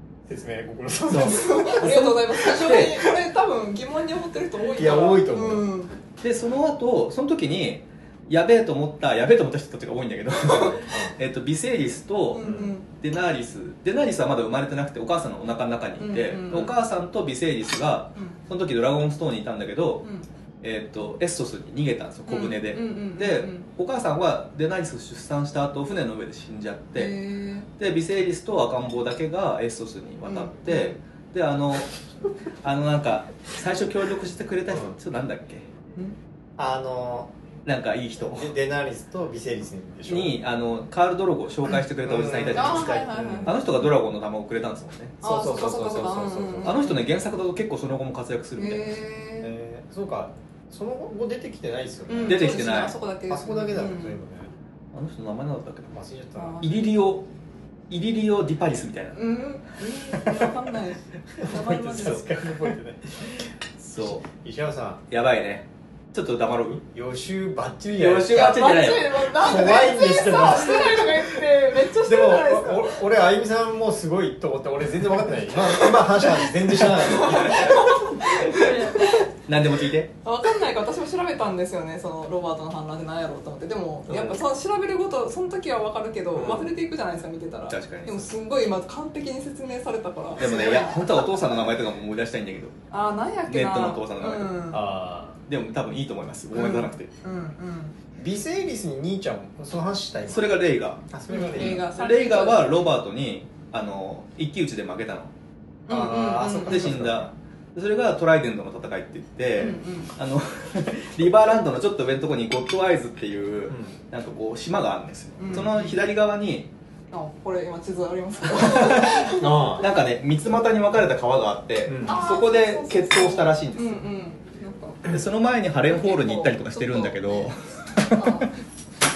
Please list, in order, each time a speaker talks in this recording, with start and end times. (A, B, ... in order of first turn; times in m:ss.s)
0:00.3-0:01.9 A
0:01.1-0:03.1 B
0:01.2-0:05.9 C
0:04.8-0:05.7 A
0:06.2-0:20.0 B
0:10.4-0:10.8 C
0:10.7-0:11.1 A
0:12.3-0:12.9 C
0:12.4-0:12.7 A
0:16.0-0:16.7 C
0:20.6-0:27.1 B
0:22.3-0:23.7 C
0:26.9-0:27.7 C
0:27.8-0:31.9 B
0:30.2-0:31.0 C
0:32.6-0:35.6 B
0:36.6-0:37.3 A
0:37.6-0:38.5 B
0:38.2-0:40.4 A
0:40.1-0:45.2 B
0:42.0-0:43.5 A
0:42.5-0:43.6 C
0:45.2-0:46.9 A
0:45.2-0:47.0 C
0:46.6-0:49.0 B
0:48.6-0:49.5 C
0:49.4-0:52.6 A
0:52.1-0:54.2 C
0:52.2-0:53.0 B
0:53.3-0:54.5 A
0:54.9-0:55.9 B
0:55.9-0:56.6 A
0:56.4-0:57.0 C
0:56.6-0:57.2 B
0:57.9-0:59.2 B
0:59.1-1:02.3 C
1:01.4-1:03.3 A
1:01.9-1:02.2 B
1:03.8-1:04.2 B
1:04.0-1:05.0 A
1:05.1-1:06.8 B
1:06.8-1:08.6 A
1:08.0-1:09.3 B
1:08.3-1:12.9 C
1:09.4-1:11.4 A
1:11.9-1:17.9 A
1:16.7-1:19.3 C
1:17.3-1:17.8 B
1:19.5-1:20.1 B
1:20.2-1:31.2 C
1:24.1-1:24.4 A
1:26.3-1:26.7 A
1:27.7-1:28.3 B
1:30.4-1:32.7 B
1:32.9-1:34.8 C
1:33.5-1:34.6 B
1:34.7-1:35.4 A
1:35.5-1:37.1 B
1:36.5-1:38.0 C
1:38.2-1:41.8 A
1:40.3-1:45.3 B
1:41.3-1:42.8 C
1:45.9-1:47.0 C
1:45.9-1:47.3 A
1:46.6-1:56.7 B
1:49.5-1:50.1 C
1:53.7-1:53.9 A
1:55.4-1:55.9 C
1:57.1-1:59.7 C
1:58.5-2:04.0 B
1:59.4-1:59.8 A
2:01.8-2:02.2 A
2:02.0-2:05.1 C
2:05.1-2:08.5 B
2:05.9-2:07.2 C
2:08.1-2:08.5 C